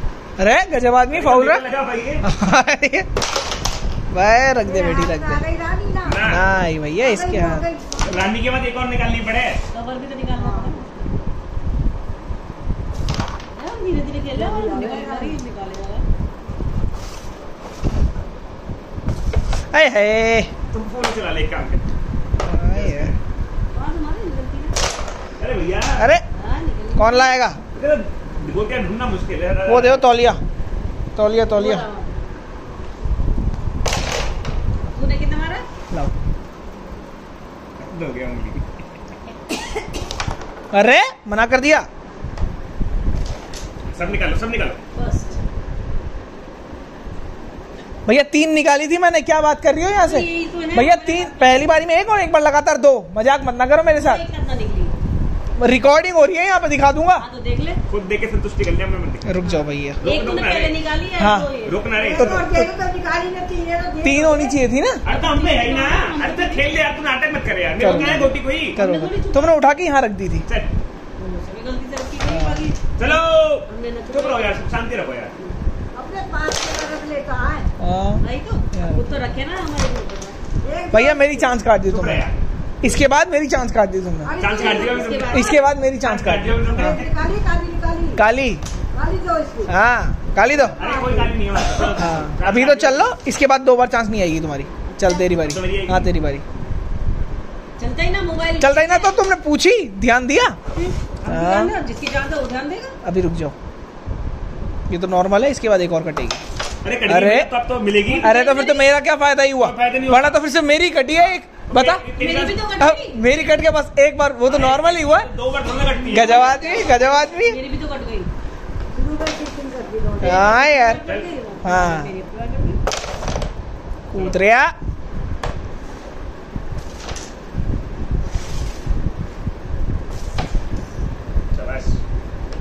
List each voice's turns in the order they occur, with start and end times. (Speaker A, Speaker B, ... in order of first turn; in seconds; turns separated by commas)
Speaker A: 0.4-1.6, Speaker B: 1.1-2.3, Speaker A: 2.2-3.1, Speaker A: 4.1-5.4, Speaker C: 4.6-6.2, Speaker B: 6.0-6.5, Speaker A: 6.2-7.7, Speaker C: 7.0-8.2, Speaker B: 8.0-9.6, Speaker D: 9.7-11.0, Speaker C: 10.4-10.8, Speaker D: 13.6-16.1, Speaker C: 14.3-15.4, Speaker A: 19.7-20.5, Speaker B: 20.7-21.8, Speaker A: 22.4-23.1, Speaker B: 22.7-23.1, Speaker D: 23.7-24.8, Speaker B: 25.4-26.1, Speaker A: 26.0-26.2, Speaker D: 26.3-27.4, Speaker A: 27.0-27.6, Speaker B: 27.8-30.1, Speaker A: 29.7-30.4, Speaker A: 31.2-31.9, Speaker D: 31.5-32.1, Speaker D: 34.9-35.7, Speaker B: 37.8-38.6, Speaker A: 40.7-41.9, Speaker B: 43.9-44.8, Speaker D: 45.0-45.4, Speaker A: 48.1-54.2, Speaker D: 50.0-51.7, Speaker D: 54.0-55.0, Speaker A: 55.6-57.2, Speaker D: 57.2-57.8, Speaker B: 57.9-59.4, Speaker A: 59.2-60.0, Speaker D: 59.5-61.8, Speaker B: 60.0-60.8, Speaker A: 61.2-61.5, Speaker B: 61.6-62.5, Speaker C: 61.9-64.6, Speaker A: 62.2-62.7, Speaker A: 64.0-65.0, Speaker B: 65.1-68.8, Speaker D: 65.1-66.7, Speaker A: 67.8-70.5, Speaker D: 67.8-69.6, Speaker D: 71.2-72.9, Speaker A: 72.3-72.7, Speaker B: 73.0-75.3, Speaker D: 73.7-74.7, Speaker C: 75.9-77.7, Speaker A: 77.8-79.1, Speaker D: 78.2-80.4, Speaker C: 80.6-81.6, Speaker A: 80.9-82.3, Speaker B: 81.9-82.4, Speaker A: 82.8-84.5, Speaker C: 84.2-85.3, Speaker B: 84.4-87.2, Speaker D: 84.5-85.7, Speaker A: 85.3-87.0, Speaker C: 86.7-88.2, Speaker A: 88.2-88.6, Speaker C: 88.9-89.7, Speaker A: 89.7-90.8, Speaker C: 90.5-91.5, Speaker B: 90.8-93.1, Speaker A: 91.9-96.4, Speaker D: 94.9-95.3, Speaker B: 95.5-96.1, Speaker D: 97.8-99.2, Speaker A: 98.6-100.6, Speaker D: 100.8-102.9, Speaker A: 101.3-101.7, Speaker A: 103.0-103.5, Speaker A: 104.9-106.4, Speaker B: 106.8-108.3, Speaker A: 107.0-107.5, Speaker D: 108.1-108.9, Speaker A: 108.2-112.0, Speaker B: 109.6-110.4, Speaker B: 111.3-112.6, Speaker D: 112.2-113.2, Speaker A: 112.8-115.3, Speaker B: 114.5-116.8, Speaker D: 116.0-118.3, Speaker A: 116.1-117.6, Speaker C: 118.9-120.6, Speaker A: 120.2-121.0, Speaker D: 120.2-122.8, Speaker B: 121.0-121.3, Speaker A: 121.6-122.1, Speaker A: 124.1-124.7, Speaker B: 124.1-124.4, Speaker B: 131.5-132.0